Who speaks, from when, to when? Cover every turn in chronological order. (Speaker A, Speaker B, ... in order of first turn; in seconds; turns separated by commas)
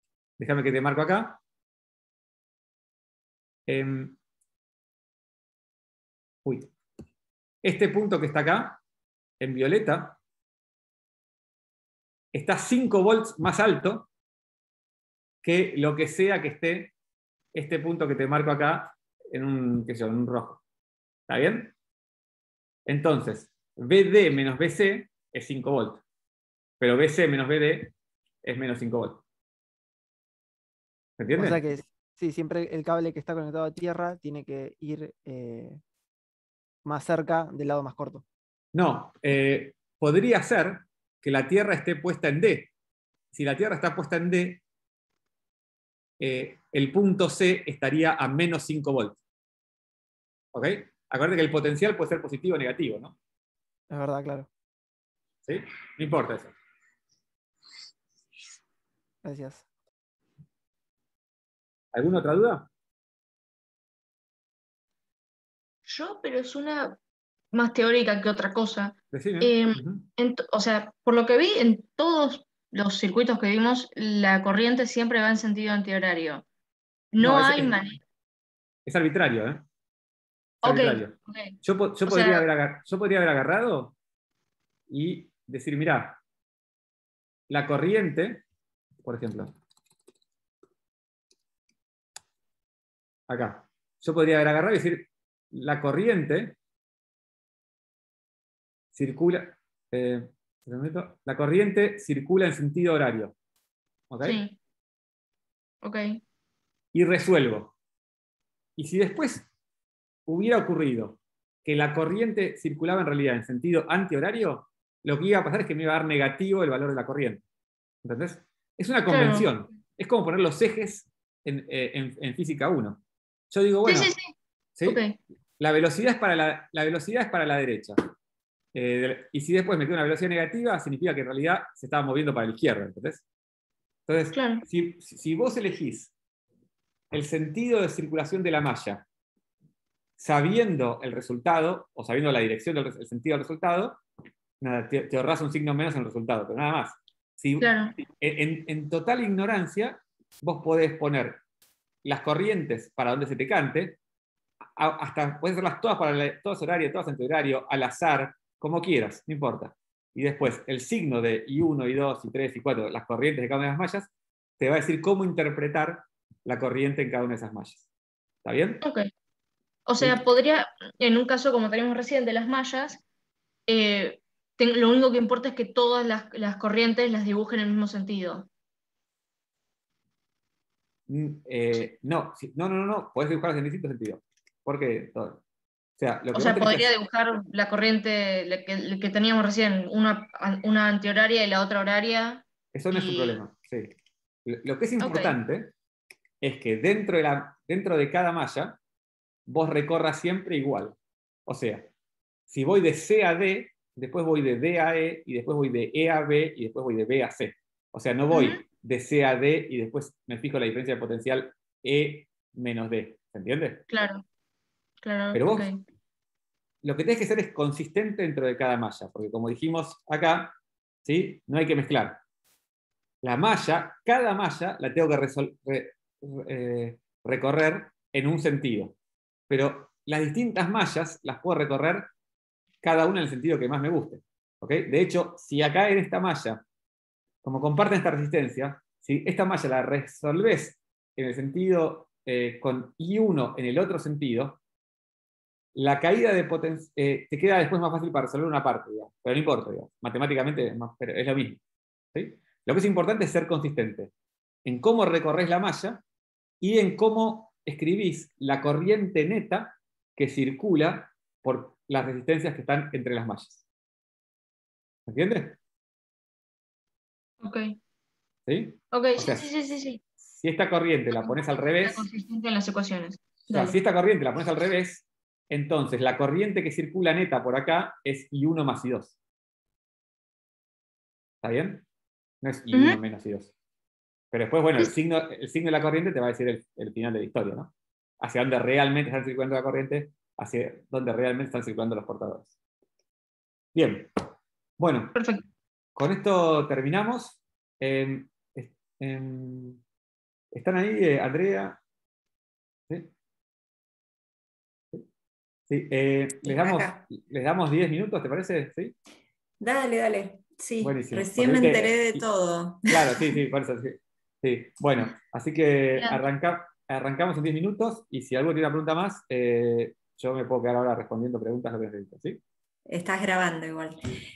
Speaker A: 0.4-1.4, Speaker A: 3.7-4.2, Speaker A: 6.4-6.7, Speaker A: 7.6-8.8, Speaker A: 9.4-10.2, Speaker A: 12.3-14.1, Speaker A: 15.4-16.9, Speaker A: 17.5-20.6, Speaker A: 21.3-21.7, Speaker A: 22.9-26.0, Speaker A: 26.8-27.9, Speaker A: 28.4-29.2, Speaker A: 31.2-31.6, Speaker B: 31.3-35.8, Speaker B: 36.8-38.2, Speaker A: 38.7-42.7, Speaker A: 43.3-44.6, Speaker A: 46.2-49.2, Speaker A: 50.5-53.1, Speaker B: 53.9-54.5, Speaker A: 55.5-56.5, Speaker B: 59.2-59.6, Speaker A: 61.9-62.7, Speaker C: 65.8-67.0, Speaker C: 67.5-76.4, Speaker A: 69.1-70.1, Speaker C: 77.1-78.0, Speaker A: 77.2-77.8, Speaker A: 78.8-79.6, Speaker C: 80.6-82.5, Speaker A: 80.6-83.9, Speaker A: 84.9-86.2, Speaker A: 87.5-88.4, Speaker A: 89.0-89.5, Speaker A: 93.3-96.6, Speaker A: 98.9-103.3, Speaker A: 104.1-104.4, Speaker C: 104.2-104.5, Speaker C: 105.8-106.2, Speaker A: 106.9-107.7, Speaker A: 108.8-109.5, Speaker A: 110.3-117.4, Speaker A: 118.0-124.1, Speaker C: 119.1-119.5, Speaker C: 123.8-124.3, Speaker C: 124.8-125.2, Speaker A: 125.6-128.1, Speaker A: 128.7-133.2, Speaker A: 134.1-136.1, Speaker C: 134.3-134.6, Speaker A: 137.1-139.0, Speaker A: 140.2-144.0, Speaker A: 144.6-151.4, Speaker C: 147.6-147.9, Speaker A: 152.0-154.0, Speaker A: 154.8-167.8, Speaker A: 168.4-168.8, Speaker C: 168.8-169.1, Speaker C: 169.9-173.0, Speaker C: 173.7-178.5, Speaker A: 181.1-185.4, Speaker A: 186.0-186.9, Speaker C: 186.3-193.4, Speaker A: 192.7-193.9, Speaker A: 194.4-195.7, Speaker C: 195.0-195.4, Speaker A: 196.4-198.8, Speaker A: 199.5-200.9, Speaker A: 201.5-201.9, Speaker A: 202.5-213.8, Speaker C: 208.3-208.6, Speaker C: 213.9-214.2, Speaker C: 215.0-215.8, Speaker A: 215.3-215.7, Speaker A: 216.8-222.2, Speaker A: 223.2-228.9, Speaker A: 229.5-232.1, Speaker A: 232.8-236.6, Speaker A: 237.4-244.6, Speaker A: 245.7-251.6, Speaker A: 252.1-254.1, Speaker A: 254.6-256.0, Speaker A: 256.6-263.6, Speaker A: 265.1-265.6, Speaker C: 267.4-267.8, Speaker A: 268.5-269.5, Speaker C: 268.9-270.0, Speaker A: 270.3-272.1, Speaker C: 271.1-273.8, Speaker A: 273.5-279.1, Speaker A: 281.4-281.8, Speaker A: 282.4-283.5, Speaker C: 282.7-283.0, Speaker A: 284.3-292.5, Speaker A: 293.7-294.1, Speaker A: 294.8-295.1, Speaker C: 295.1-295.4, Speaker A: 295.9-299.8, Speaker A: 300.5-301.8, Speaker A: 305.7-308.9, Speaker D: 306.4-307.0, Speaker D: 309.6-313.4, Speaker A: 310.8-312.3, Speaker A: 312.9-322.4, Speaker D: 322.9-324.0